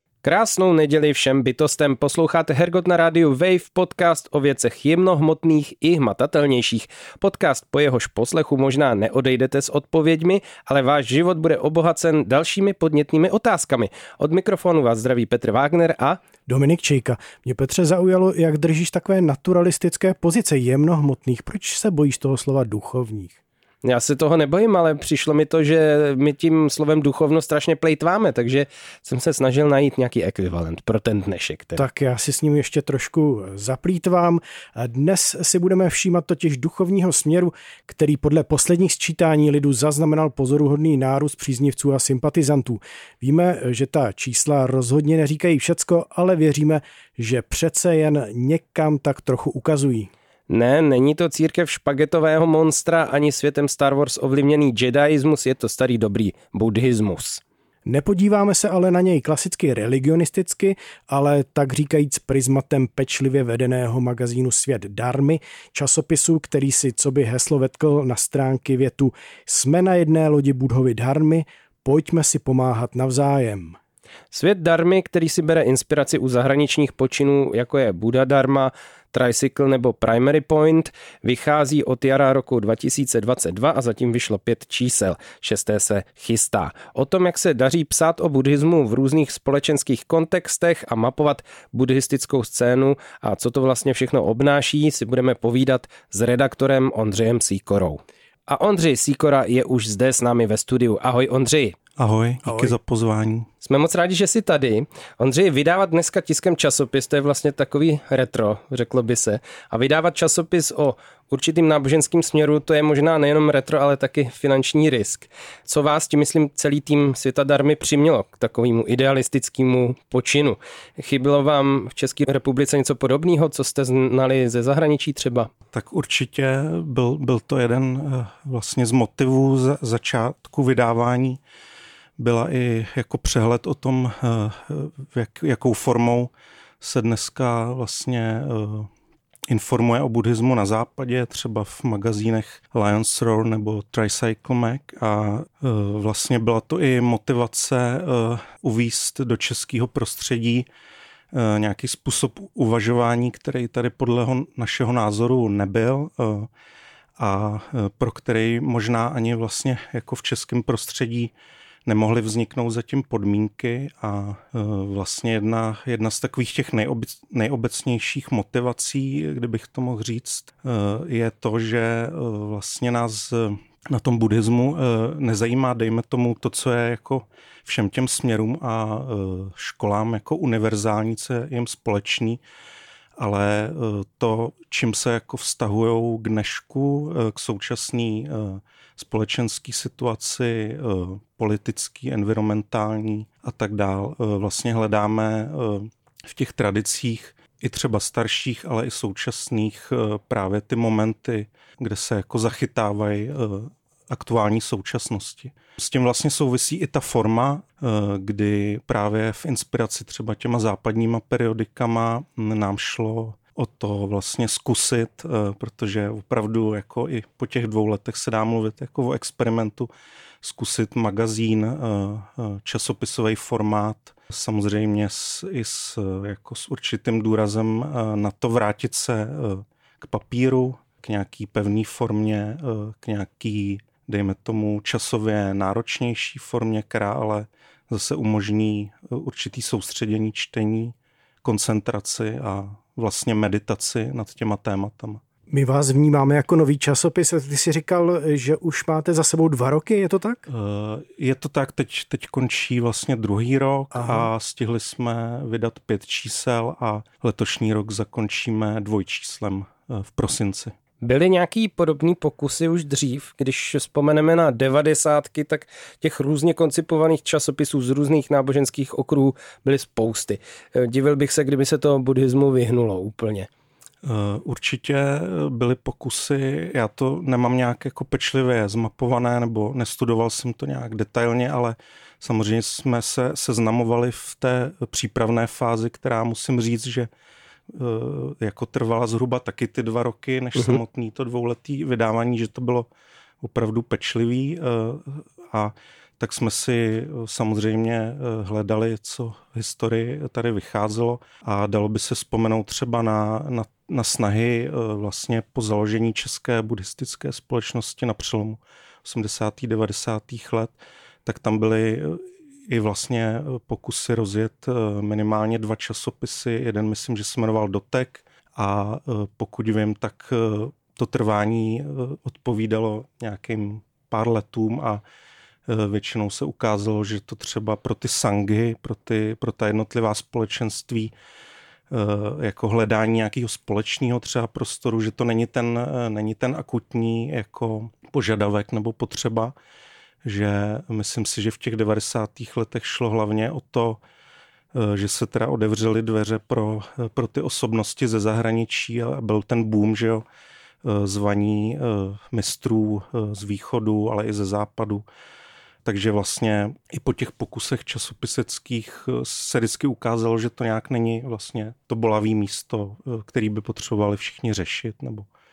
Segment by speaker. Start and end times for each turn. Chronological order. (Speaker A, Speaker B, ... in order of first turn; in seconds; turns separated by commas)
Speaker A: 0.2-16.2, Speaker B: 16.5-23.4, Speaker A: 23.8-31.8, Speaker B: 31.8-50.1, Speaker A: 50.5-57.4, Speaker B: 57.9-73.8, Speaker A: 74.3-101.8, Speaker C: 102.0-103.5, Speaker B: 102.5-102.7, Speaker A: 103.6-125.5, Speaker C: 125.7-131.4, Speaker C: 132.2-138.9, Speaker C: 139.5-150.7, Speaker C: 151.3-156.5, Speaker C: 157.2-161.3, Speaker C: 161.8-182.4, Speaker C: 183.2-219.9, Speaker C: 220.4-245.2, Speaker B: 245.5-250.4, Speaker C: 250.5-260.7, Speaker B: 253.9-254.3, Speaker A: 261.0-273.5, Speaker C: 274.0-287.1, Speaker C: 287.7-292.9, Speaker A: 290.6-290.8, Speaker C: 293.4-310.7, Speaker C: 311.2-325.0, Speaker C: 325.7-331.1, Speaker C: 331.9-339.5, Speaker C: 340.2-344.0, Speaker C: 344.7-350.2, Speaker C: 350.8-355.0, Speaker C: 355.8-365.3